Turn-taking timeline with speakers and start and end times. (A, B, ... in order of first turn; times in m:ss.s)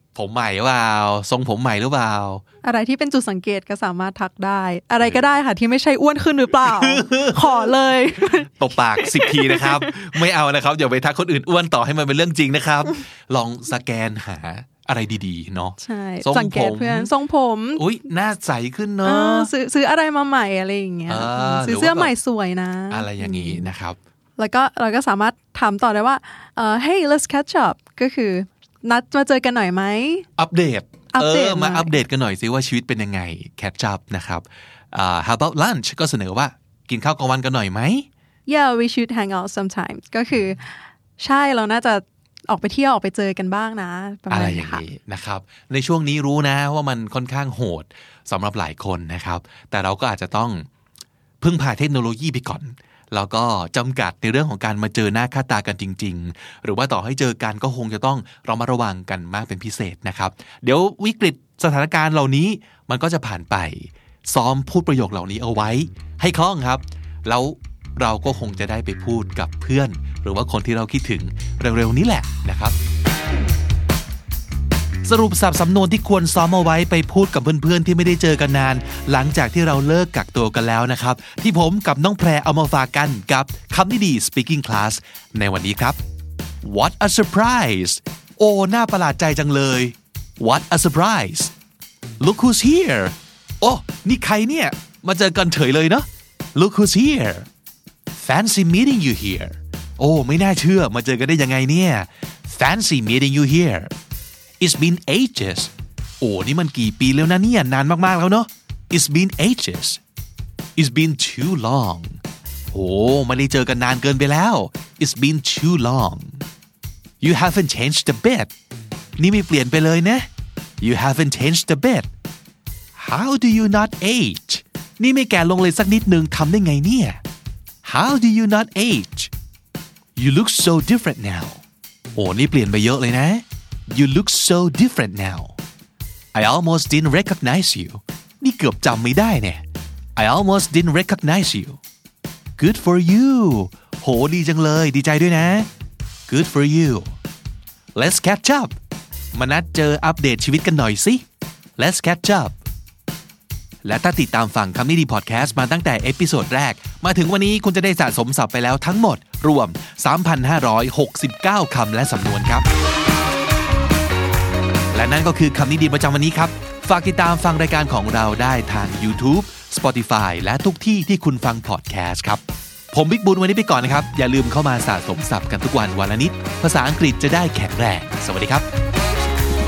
0:00.2-0:02.4 A
0:02.6-0:10.1 B
0:06.6-0:07.8 A
0:08.6-0:17.1 A
0:15.8-0:17.9 B
0:17.8-0:19.5 A
0:19.0-0:23.7 B
0:21.1-0:22.1 A
0:22.9-0:24.0 A
0:24.4-0:30.3 B
0:30.4-0:38.1 A
0:31.1-0:32.0 B
0:38.5-0:44.8 B
0:44.3-0:50.7 A
0:51.4-1:12.8 A
1:15.0-1:26.0 A
1:26.6-1:31.5 A
1:32.2-1:37.5 A
1:38.1-1:43.9 A
1:44.6-1:50.0 A
1:50.8-1:52.2 A
1:52.7-1:56.4 A
1:57.2-1:58.5 A
1:59.2-2:00.3 A
2:00.8-2:02.1 A
2:03.0-2:07.2 A
2:07.8-2:09.3 A
2:10.2-2:11.6 A
2:12.2-2:15.6 A
2:16.3-2:19.6 A
2:20.2-2:21.8 A
2:22.6-2:25.7 A
2:26.3-2:27.1 A
2:28.0-2:28.8 A
2:29.3-2:31.2 A
2:31.8-2:32.6 A
2:33.8-2:42.7 A
2:44.9-2:58.7 A